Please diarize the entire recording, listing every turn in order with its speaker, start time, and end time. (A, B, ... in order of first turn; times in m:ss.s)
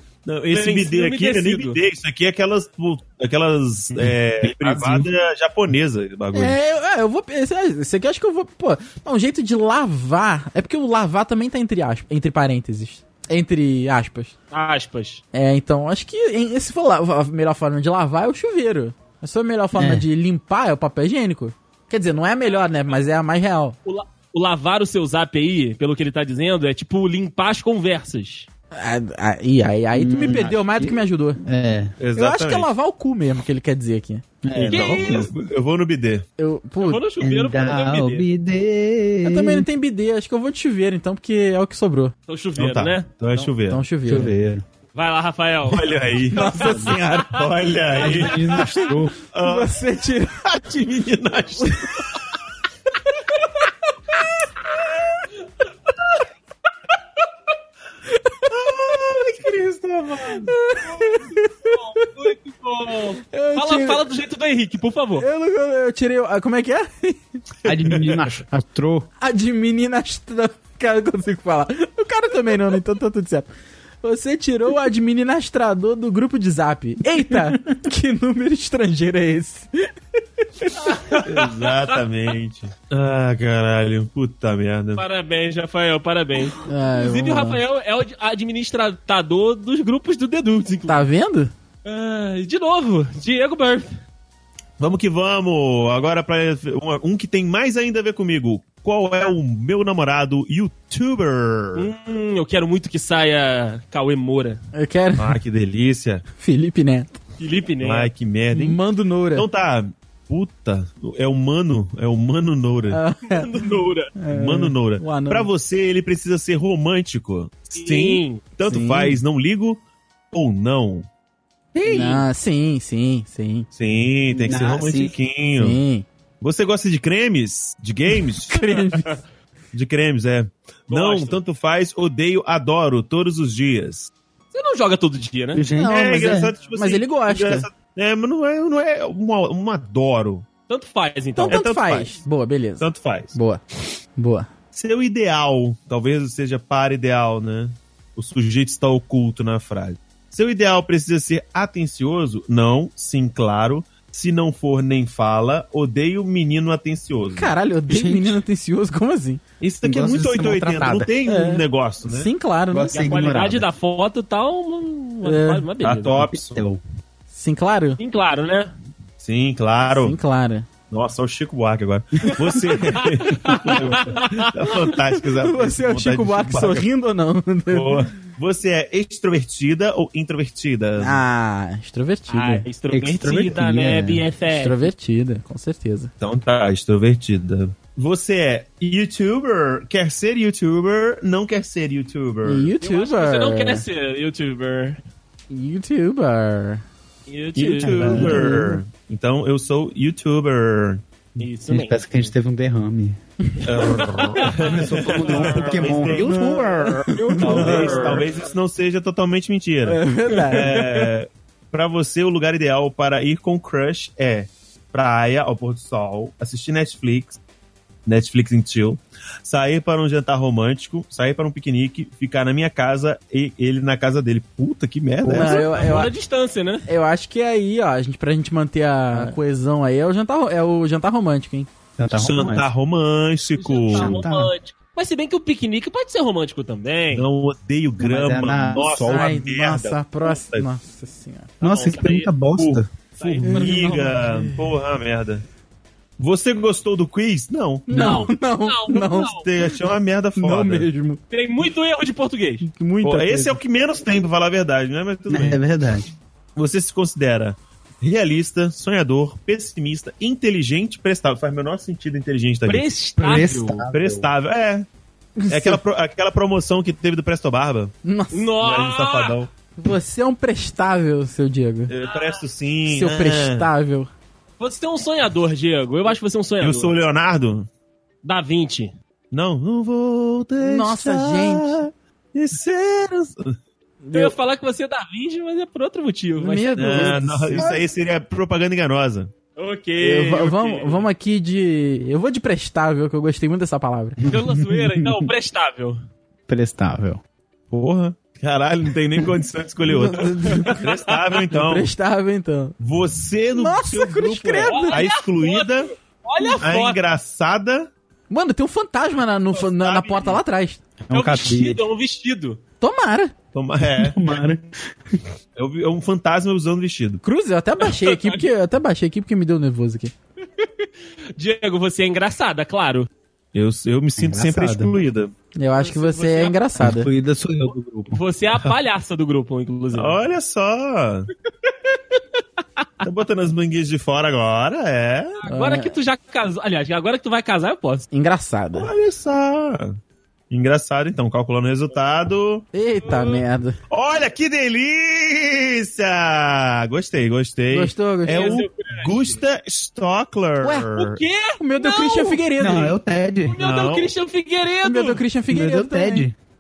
0:00.2-0:06.6 A
0:00.5-0:01.8 B
0:04.0-0:05.1 C
0:06.3-0:14.3 D
0:14.5-0:15.2 B
0:15.3-0:23.8 D
0:19.7-0:20.0 C
0:22.5-0:23.0 B
0:23.8-0:28.5 B
0:28.7-0:31.4 D
0:29.9-0:31.9 C
0:32.0-0:32.7 A
0:32.1-0:34.2 D
0:34.4-0:35.3 C
0:34.5-0:36.2 A
0:34.7-0:35.3 B
0:36.4-0:37.0 D
0:36.8-0:38.3 B
0:37.2-0:39.7 C
0:39.2-0:42.1 D
0:42.3-0:43.0 B
0:42.6-0:43.8 A
0:43.3-0:44.3 D
0:44.0-0:44.6 C
0:44.9-0:47.2 B
0:45.6-0:48.7 A
0:46.3-0:47.4 D
0:47.9-0:49.1 C
0:48.0-0:48.8 B
0:49.3-0:49.7 A
0:49.4-0:50.5 D
0:50.4-0:52.2 A
0:51.6-0:52.0 D
0:58.1-0:59.0 D
0:58.5-1:00.5 A
1:00.4-1:01.8 D
1:00.8-1:05.2 B
1:03.3-1:04.0 D
1:05.2-1:07.2 D
1:07.6-1:09.1 C
1:09.2-1:13.5 D
1:14.0-1:19.7 D
1:20.6-1:20.9 D
1:20.8-1:22.0 B
1:21.2-1:25.0 A
1:25.0-1:31.1 B
1:26.6-1:27.6 D
1:30.9-1:31.5 D
1:31.8-1:34.0 B
1:34.8-1:41.9 A
1:41.8-1:44.6 B
1:44.7-1:45.4 D
1:45.2-1:46.2 A
1:46.4-1:47.2 D
1:47.4-1:48.1 B
1:47.8-1:48.8 A
1:48.5-1:49.4 D
1:49.3-1:53.0 A
1:52.9-1:53.5 D
1:53.3-1:54.1 B
1:54.2-1:55.5 D
1:54.3-2:01.1 A
1:57.8-1:58.4 B
1:58.6-1:59.2 D
2:01.7-2:02.2 C
2:01.8-2:03.7 D
2:03.7-2:05.8 A
2:04.3-2:05.1 C
2:05.6-2:06.0 D
2:06.4-2:08.8 A
2:08.4-2:09.2 D
2:09.7-2:14.1 A
2:10.9-2:11.4 B
2:14.5-2:15.6 B
2:15.5-2:16.5 C
2:15.8-2:20.4 A
2:15.8-2:17.7 D
2:20.7-2:21.6 B
2:21.4-2:23.6 D
2:21.5-2:22.2 A
2:22.8-2:23.3 A
2:24.2-2:24.5 D
2:24.7-2:37.5 A
2:37.3-2:39.4 D
2:37.9-2:38.4 C
2:39.6-2:42.3 A
2:39.8-2:41.1 C
2:41.2-2:43.1 D
2:42.7-2:43.7 C
2:42.9-2:46.2 B
2:45.2-2:45.7 D
2:45.8-2:46.6 A
2:46.2-2:46.8 C
2:47.3-2:48.0 D
2:48.0-2:48.7 B
2:49.2-2:50.2 A
2:49.9-2:50.7 D
2:50.9-2:56.9 A
2:52.9-2:54.7 B
2:55.3-2:58.1 D
2:57.7-3:01.2 A
3:01.0-3:02.6 D
3:02.3-3:04.9 B
3:02.9-3:04.2 C
3:04.5-3:06.1 D
3:06.2-3:12.7 A
3:12.4-3:13.8 D
3:12.8-3:15.0 B
3:15.5-3:16.8 D
3:17.3-3:18.5 B
3:17.6-3:21.0 A
3:17.8-3:18.8 C
3:18.1-3:18.7 D
3:21.4-3:22.3 B
3:21.7-3:23.2 C
3:23.5-3:24.0 D
3:23.6-3:26.7 A
3:23.8-3:26.2 B
3:24.4-3:28.3 C
3:26.0-3:27.8 D
3:27.4-3:37.4 A
3:27.4-3:28.3 B
3:29.8-3:30.8 D
3:30.3-3:31.1 B
3:38.0-3:45.7 A
3:45.2-3:46.1 D
3:45.3-3:46.9 B
3:46.9-3:51.7 D
3:52.0-3:52.7 C
3:52.1-3:54.2 A
3:53.6-3:57.3 B
3:53.9-3:54.5 C
3:57.1-4:00.7 A
3:58.0-3:59.3 C
3:58.9-4:01.5 D
4:01.6-4:02.3 B
4:01.6-4:02.9 C
4:02.5-4:05.4 A
4:03.2-4:04.1 B
4:03.4-4:04.7 D
4:06.2-4:07.9 A
4:07.9-4:09.7 D
4:07.9-4:09.5 B
4:09.3-4:10.9 A
4:10.4-4:11.2 D
4:11.3-4:12.7 B
4:12.6-4:13.6 D
4:13.0-4:15.6 A
4:15.3-4:16.1 C
4:16.6-4:22.9 A
4:22.6-4:23.8 B
4:23.2-4:24.3 C
4:23.9-4:24.9 A
4:25.4-4:25.8 D
4:25.5-4:27.9 A
4:28.0-4:28.5 D
4:28.3-4:29.4 B
4:28.6-4:29.5 A
4:29.8-4:31.9 D
4:31.9-4:33.7 A
4:32.0-4:32.4 B
4:32.8-4:34.1 D
4:34.6-4:36.9 B
4:36.6-4:37.7 A
4:38.2-4:38.9 B
4:39.3-4:43.6 A
4:40.6-4:41.8 D
4:44.0-4:44.3 D
4:44.1-4:47.2 B
4:46.4-4:47.8 D
4:46.8-4:49.3 A
4:49.6-4:51.0 B
4:50.0-4:54.2 D
4:54.2-4:55.3 C
4:54.3-4:56.0 B
4:56.5-4:57.2 C
4:57.7-5:01.9 A
4:59.9-5:00.8 D
5:00.6-5:01.4 B
5:01.5-5:02.8 D
5:02.8-5:05.9 A
5:03.5-5:05.0 D
5:04.6-5:07.0 B
5:06.6-5:07.9 A
5:08.3-5:10.8 D
5:09.6-5:10.4 A
5:11.0-5:11.8 C
5:11.1-5:12.6 B
5:12.8-5:13.3 D
5:13.5-5:14.4 A
5:13.8-5:14.7 C
5:15.6-5:17.2 A
5:17.2-5:20.1 D
5:17.8-5:18.4 B
5:21.4-5:23.1 B
5:23.5-5:25.3 A
5:24.2-5:24.9 C
5:25.6-5:27.1 D
5:25.7-5:26.6 B
5:26.8-5:28.2 C
5:28.1-5:30.2 B
5:29.9-5:31.3 A
5:31.7-5:32.2 B
5:33.0-5:35.4 A
5:35.4-5:38.1 B
5:35.5-5:35.9 D
5:38.1-5:38.9 D
5:38.7-5:40.0 A
5:40.5-5:42.6 A
5:42.7-5:43.8 D
5:43.0-5:43.4 B
5:43.9-5:51.2 A
5:47.7-5:48.6 D
5:48.2-5:49.4 B
5:50.6-5:50.9 D
5:50.9-5:52.4 B
5:51.6-5:53.0 D
5:52.6-5:53.6 C
5:53.5-5:55.2 B
5:53.6-5:54.1 A
5:54.8-5:56.3 D
5:55.5-5:56.3 C